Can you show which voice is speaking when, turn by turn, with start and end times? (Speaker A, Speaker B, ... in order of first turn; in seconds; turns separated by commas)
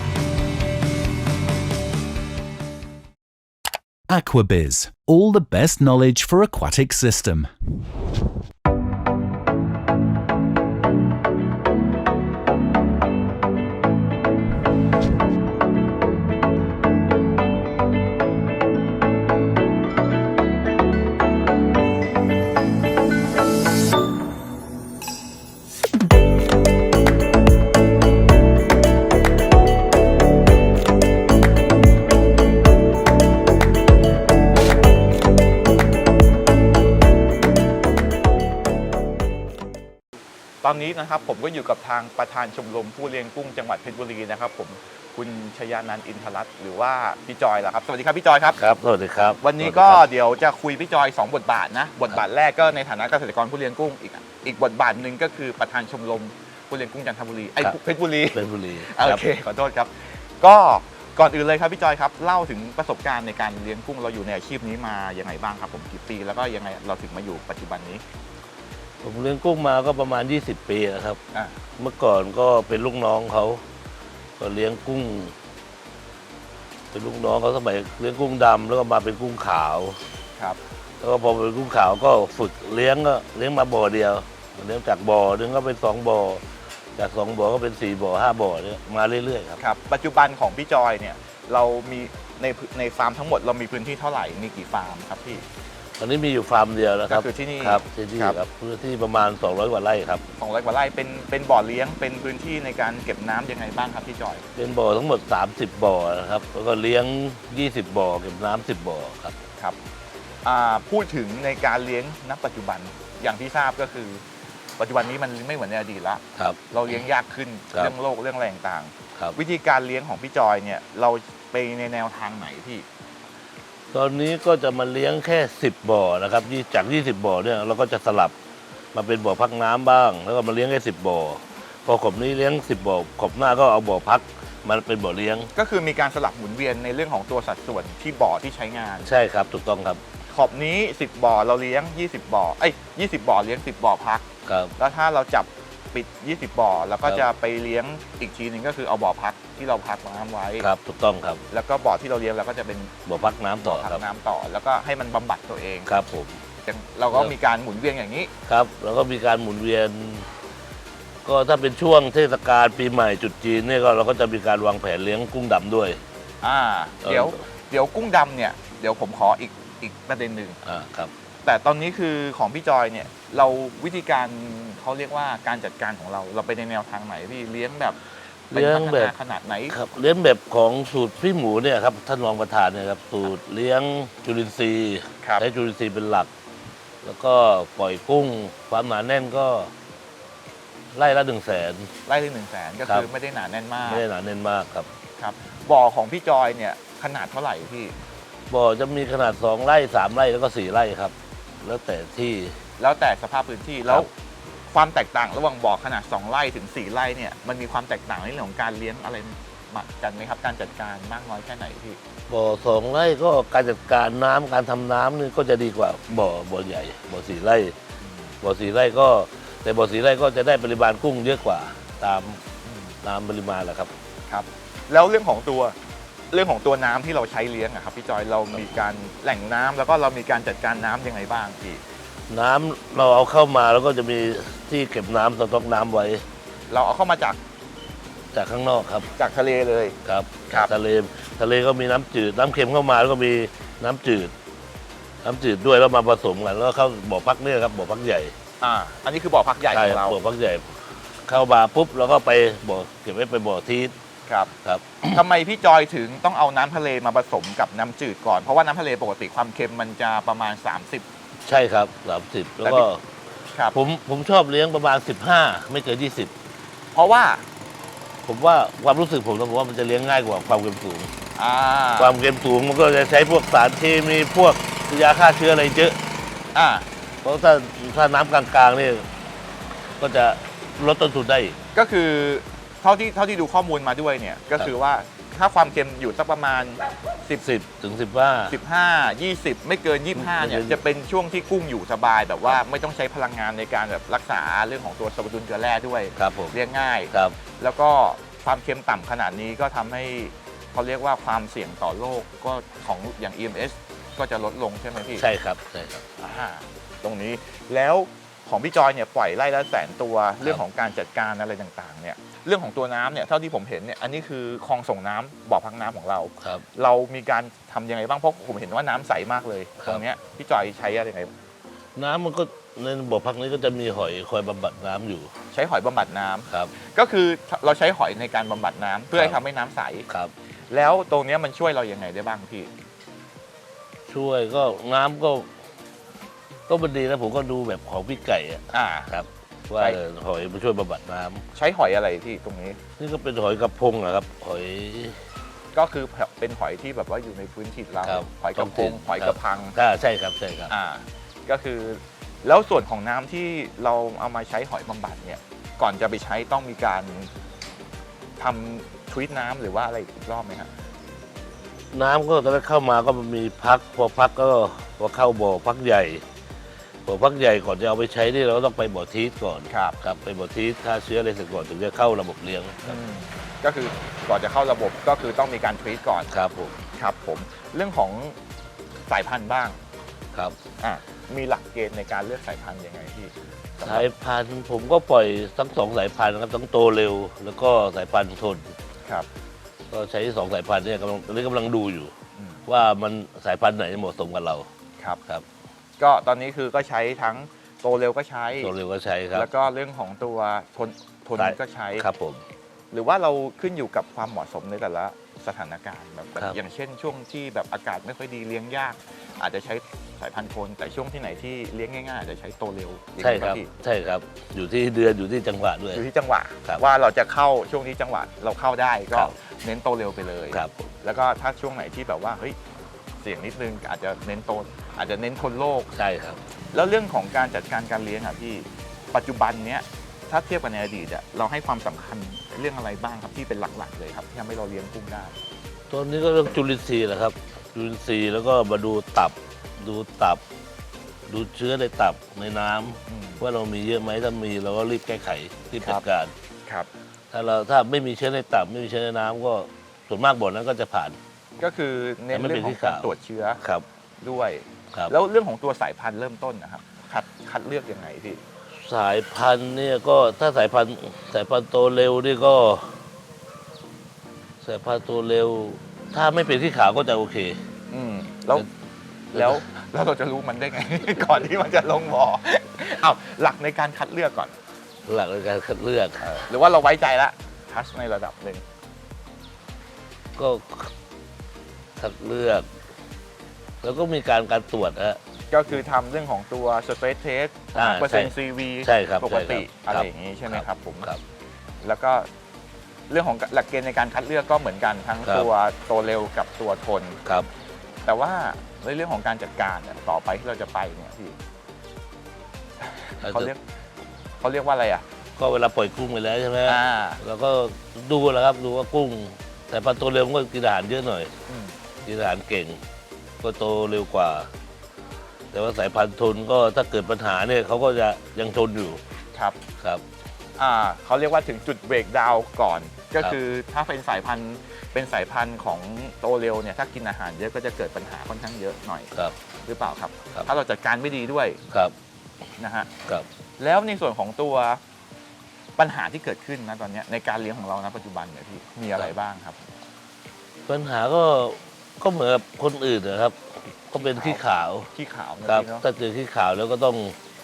Speaker A: 4.1-7.5, Speaker B: 40.6-48.6, Speaker C: 48.6-50.1, Speaker B: 49.4-68.0, Speaker C: 58.3-59.3, Speaker C: 69.0-71.2, Speaker C: 71.8-73.6, Speaker C: 74.4-75.3, Speaker C: 76.9-80.0, Speaker C: 81.0-89.6, Speaker B: 89.6-95.5, Speaker C: 96.0-100.2, Speaker B: 97.1-98.4, Speaker B: 100.4-104.5, Speaker C: 104.6-109.4, Speaker B: 110.4-114.2, Speaker B: 114.8-122.9, Speaker C: 123.9-128.3, Speaker C: 128.9-135.5, Speaker B: 135.5-139.1, Speaker C: 139.0-140.0, Speaker B: 140.3-150.7, Speaker C: 144.5-144.8, Speaker C: 150.6-151.4, Speaker B: 151.5-152.9, Speaker C: 153.1-154.0, Speaker B: 153.6-155.9, Speaker C: 155.9-156.3, Speaker B: 156.7-158.3, Speaker C: 158.5-160.3, Speaker C: 161.2-166.0, Speaker B: 166.4-170.6, Speaker C: 167.0-167.4, Speaker C: 170.7-171.1, Speaker B: 171.4-178.0, Speaker C: 178.5-179.2, Speaker B: 178.5-179.8, Speaker C: 179.7-186.3, Speaker C: 187.0-189.7, Speaker C: 190.9-191.9, Speaker B: 192.1-194.1, Speaker C: 193.9-194.9, Speaker B: 195.2-197.9, Speaker C: 198.5-202.6, Speaker B: 202.8-204.1, Speaker B: 204.7-212.0, Speaker C: 212.3-217.8, Speaker B: 218.0-218.3, Speaker C: 218.4-222.4, Speaker B: 222.6-223.0, Speaker C: 223.0-223.9, Speaker B: 224.3-225.8, Speaker B: 226.3-231.8, Speaker C: 232.3-236.2, Speaker B: 236.7-237.4, Speaker C: 238.3-239.1, Speaker B: 239.2-240.0, Speaker C: 240.1-244.3, Speaker C: 245.2-248.3, Speaker B: 248.6-250.2, Speaker C: 249.7-253.9, Speaker B: 254.3-254.5, Speaker C: 254.6-255.2, Speaker B: 255.1-261.1, Speaker C: 261.5-263.0, Speaker B: 263.5-263.8, Speaker C: 263.7-266.3, Speaker B: 266.9-267.4, Speaker C: 268.3-271.1, Speaker B: 271.4-272.2, Speaker C: 272.0-276.0, Speaker B: 276.5-276.9, Speaker C: 277.2-279.1, Speaker C: 280.0-281.6, Speaker B: 281.8-287.4, Speaker C: 287.3-288.6, Speaker B: 288.5-305.3, Speaker C: 290.1-290.8, Speaker C: 296.2-296.6, Speaker C: 297.1-297.4, Speaker C: 305.1-306.1, Speaker B: 306.2-321.3, Speaker C: 316.4-316.7, Speaker C: 322.0-325.3, Speaker B: 325.5-330.1, Speaker C: 326.5-326.7, Speaker B: 330.7-332.7, Speaker C: 334.1-335.5, Speaker C: 336.7-341.4, Speaker B: 338.7-339.1, Speaker B: 341.5-342.8, Speaker C: 343.0-345.2, Speaker B: 345.7-349.8, Speaker C: 348.0-350.7, Speaker B: 350.7-357.3, Speaker B: 358.4-360.7, Speaker C: 361.9-366.2, Speaker C: 367.1-372.9, Speaker B: 369.7-370.0, Speaker B: 372.8-376.3, Speaker C: 376.3-376.9, Speaker B: 376.9-378.4, Speaker B: 379.1-379.8, Speaker B: 380.8-384.1, Speaker C: 383.8-388.7, Speaker C: 389.9-392.1, Speaker B: 392.4-392.6, Speaker C: 392.7-394.7, Speaker B: 396.0-398.7, Speaker C: 398.6-399.5, Speaker B: 399.3-402.1, Speaker C: 401.4-402.4, Speaker B: 402.9-413.7, Speaker C: 413.2-416.0, Speaker B: 415.9-422.6, Speaker C: 420.5-420.8, Speaker B: 423.2-425.9, Speaker C: 425.9-426.4, Speaker B: 426.7-435.4, Speaker C: 435.9-440.4, Speaker C: 441.3-446.3, Speaker B: 443.1-443.4, Speaker C: 447.3-451.2, Speaker B: 451.6-453.6, Speaker C: 452.3-453.9, Speaker B: 454.2-458.4, Speaker C: 458.8-463.0, Speaker C: 464.6-467.6, Speaker B: 467.9-468.7, Speaker B: 469.3-474.6, Speaker C: 469.3-469.6, Speaker C: 475.1-476.5, Speaker B: 476.2-478.6, Speaker C: 480.4-480.9, Speaker C: 482.0-482.7, Speaker C: 483.8-485.2, Speaker B: 485.5-491.1, Speaker C: 487.8-491.2, Speaker B: 491.8-492.3, Speaker B: 493.1-497.2, Speaker B: 498.1-501.4, Speaker B: 502.8-503.6, Speaker C: 503.2-503.5, Speaker B: 504.4-505.0, Speaker C: 505.4-511.3, Speaker B: 506.7-507.2, Speaker B: 511.5-511.8, Speaker C: 512.0-512.8, Speaker C: 513.4-514.5, Speaker C: 515.5-519.0, Speaker B: 520.6-529.1, Speaker B: 529.6-531.6, Speaker B: 532.6-532.9, Speaker B: 533.6-534.8, Speaker B: 535.8-539.7, Speaker C: 540.7-544.9, Speaker B: 544.0-545.9, Speaker C: 545.5-547.1